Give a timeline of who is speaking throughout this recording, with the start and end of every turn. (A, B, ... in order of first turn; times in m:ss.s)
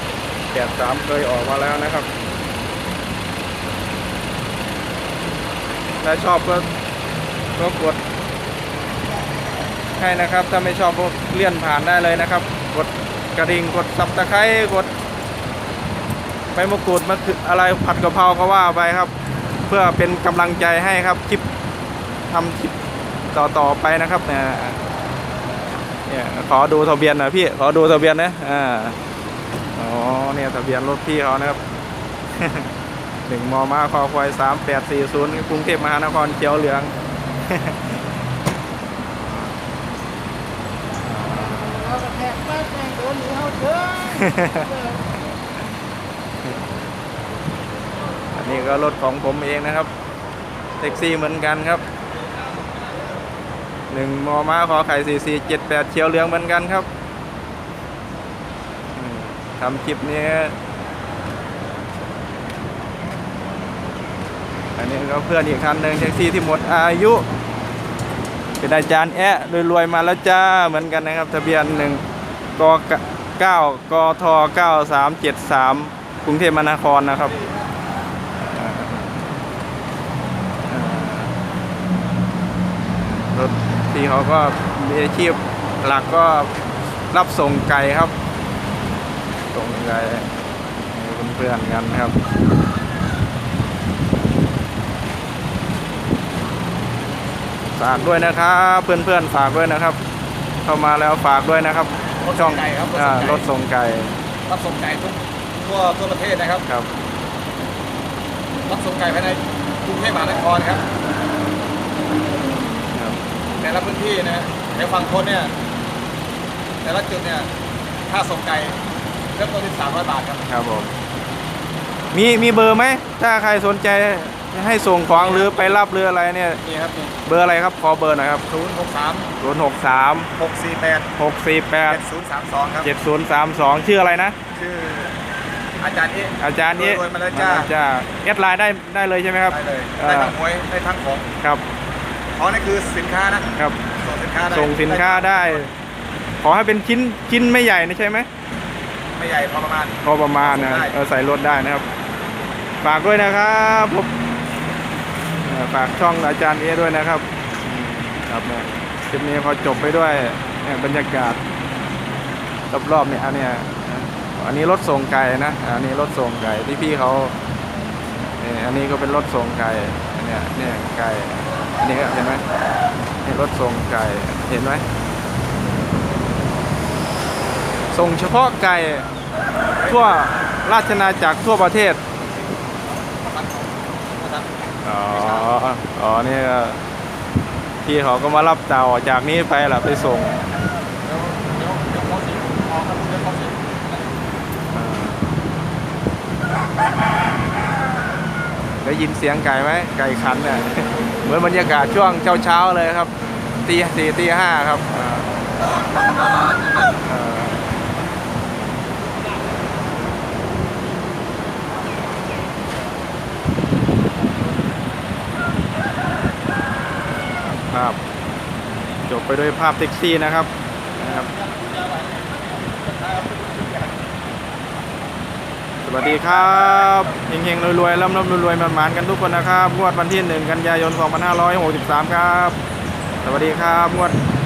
0:00.5-0:02.1 A
0:06.0-0:06.7 A
0:07.6-0:08.0 A
0:10.0-0:14.9 A
0:16.5-0:19.1 A
0:19.7-0:21.4 A
0:22.3-0:22.7 A
0:23.3-0:24.8 A
0:26.1-0:29.0 A
0:29.8-0:31.6 A
0:32.4-0:32.7 A
0:33.3-0:36.9 A
0:37.5-0:37.8 A
0:39.3-0:39.6 A
0:41.0-0:41.9 A
0:41.7-0:45.0 B
0:44.0-0:44.7 A
0:48.4-0:49.9 A
0:50.8-0:51.8 A
0:53.9-0:56.9 A
0:59.0-1:00.6 A
1:04.8-1:07.2 A
1:08.6-1:12.0 A
1:12.6-1:17.4 A
1:18.5-1:19.2 A
1:20.7-1:21.3 A
1:23.2-1:26.5 A
1:27.1-1:28.1 A
1:29.5-1:30.3 A
1:30.9-1:32.2 A
1:37.8-1:40.0 A
1:40.6-1:44.1 A
1:42.2-1:43.4 C
1:44.5-1:46.6 C
1:48.7-1:50.8 C
1:53.0-1:53.2 A
1:53.6-1:55.5 C
1:56.8-1:57.5 C
1:58.1-1:58.8 C
1:59.4-2:00.4 C
2:00.5-2:00.9 A
2:02.1-2:06.6 A
2:05.2-2:05.8 C
2:06.6-2:07.1 C
2:07.2-2:08.4 A
2:08.5-2:09.3 C
2:09.4-2:10.3 A
2:10.4-2:11.1 C
2:11.2-2:12.0 A
2:11.9-2:12.9 C
2:12.8-2:14.4 A
2:14.5-2:15.1 C
2:15.8-2:17.7 C
2:16.4-2:20.4 A
2:19.5-2:21.3 C
2:22.4-2:23.5 C
2:24.0-2:25.7 C
2:24.5-2:25.7 A
2:26.4-2:28.3 A
2:29.2-2:31.0 C
2:30.0-2:31.9 A
2:32.8-2:34.1 A
2:35.4-2:41.4 A
2:42.7-2:47.3 A
2:48.4-2:52.4 A
2:53.2-2:54.8 A
2:57.9-2:59.1 A
2:59.8-3:00.2 C
2:59.9-3:02.0 A
3:02.9-3:04.5 C
3:04.8-3:06.8 A
3:05.1-3:05.5 C
3:07.8-3:10.4 A
3:11.0-3:14.0 C
3:14.7-3:15.2 A
3:18.8-3:23.1 A
3:23.6-3:25.3 A
3:27.0-3:27.7 A
3:37.5-3:38.0 A
3:39.1-3:41.3 A
3:41.0-3:44.0 C
3:45.8-3:52.6 A
3:53.2-3:54.2 A